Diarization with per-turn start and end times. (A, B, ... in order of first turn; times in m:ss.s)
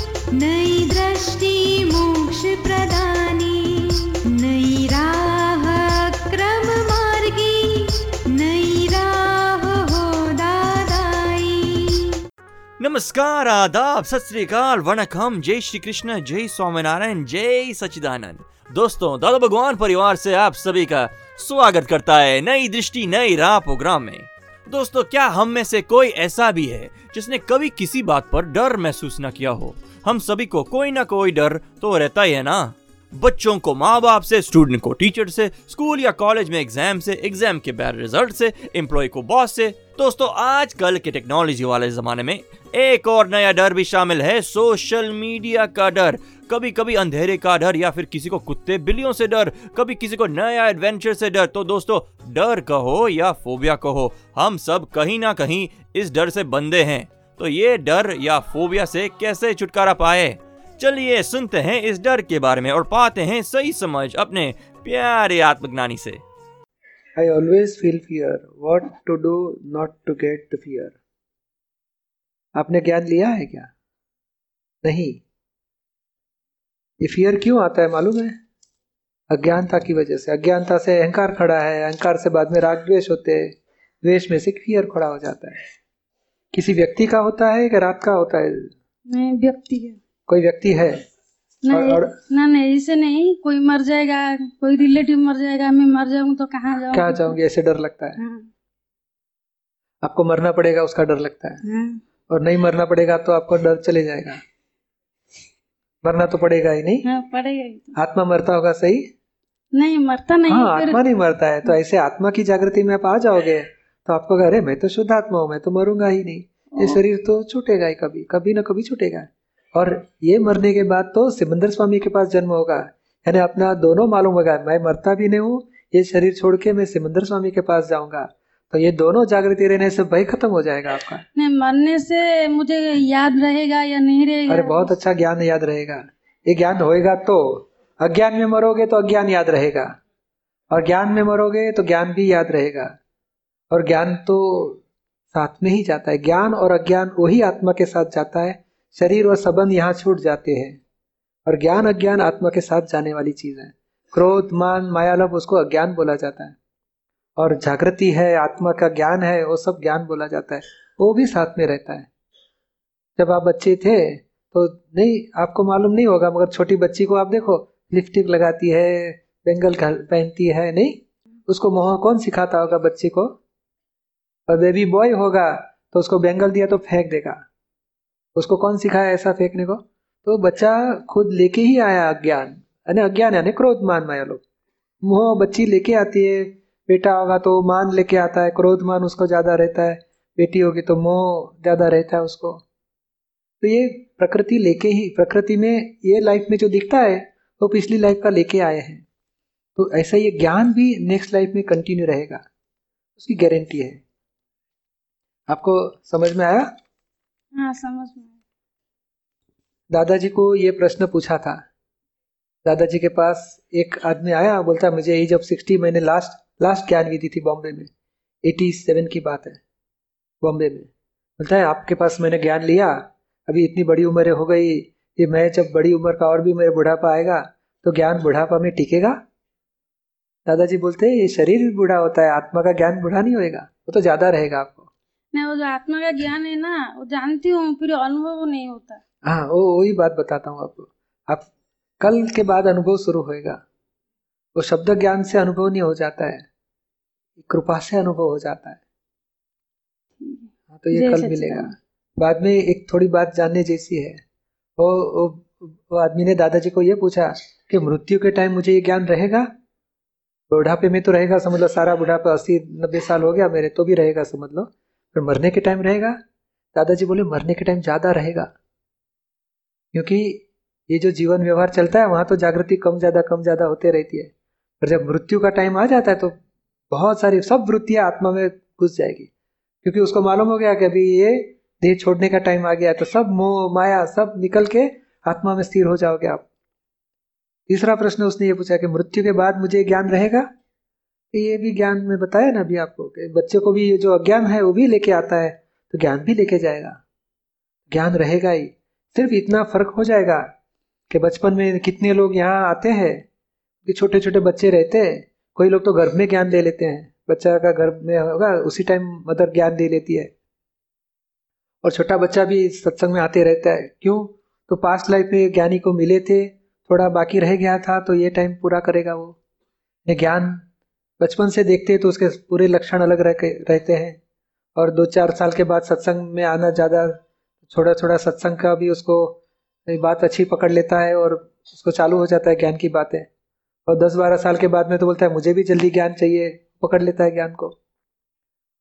0:00.8-0:01.3 A
0:02.0-0:03.5 A
0:04.6-0:05.1 A
0:06.4-0:07.3 A
0:08.5-0:09.0 A
0:12.8-1:06.2 B
1:07.2-1:11.0 C
1:12.5-1:13.7 C
1:14.8-1:15.2 C
1:17.0-1:18.3 C
1:19.3-1:25.6 C
1:26.5-1:28.7 C
1:29.2-1:30.0 D
1:30.3-1:31.0 C
1:31.7-1:37.3 D
1:31.7-1:32.1 C
1:36.9-1:38.2 C
1:40.0-1:41.6 C
1:42.3-1:44.4 C
1:46.0-1:47.0 C
1:47.1-1:47.8 D
1:47.9-1:49.0 C
1:49.8-1:51.0 D
1:50.5-2:11.2 C
2:11.4-2:14.9 D
2:14.5-2:19.9 C
2:20.7-2:22.9 C
2:23.7-2:24.8 C
2:25.3-2:30.8 C
2:31.4-2:36.6 C
2:37.4-2:42.1 C
2:43.2-2:53.3 C
2:54.5-2:57.4 C
2:58.4-3:04.4 C
3:05.0-3:12.6 C
3:13.6-3:19.0 C
3:19.8-3:22.4 C
3:23.2-3:24.0 C
3:25.5-3:26.6 C
3:27.7-3:28.2 D
3:29.9-3:31.6 C
3:32.6-3:37.9 C
3:38.4-3:39.6 C
3:40.4-3:49.2 C
3:50.4-3:54.9 C
3:55.3-3:59.0 D
3:59.2-4:01.5 C
4:02.0-4:03.6 C
4:04.6-4:06.4 C
4:07.4-4:08.8 C
4:10.7-4:14.2 C
4:11.0-4:11.6 D
4:14.8-4:19.5 C
4:20.5-4:26.2 C
4:26.7-4:28.5 C
4:29.9-4:36.3 C
4:36.9-4:39.3 C
4:39.8-4:46.4 C
4:47.7-4:50.4 C
4:51.3-4:57.0 C
4:57.9-5:00.4 C
5:01.1-5:03.2 C
5:03.8-5:10.3 C
5:11.8-5:19.4 C
5:20.0-5:20.6 C
5:21.2-5:24.2 C
5:24.8-5:33.3 C
5:33.8-5:37.7 C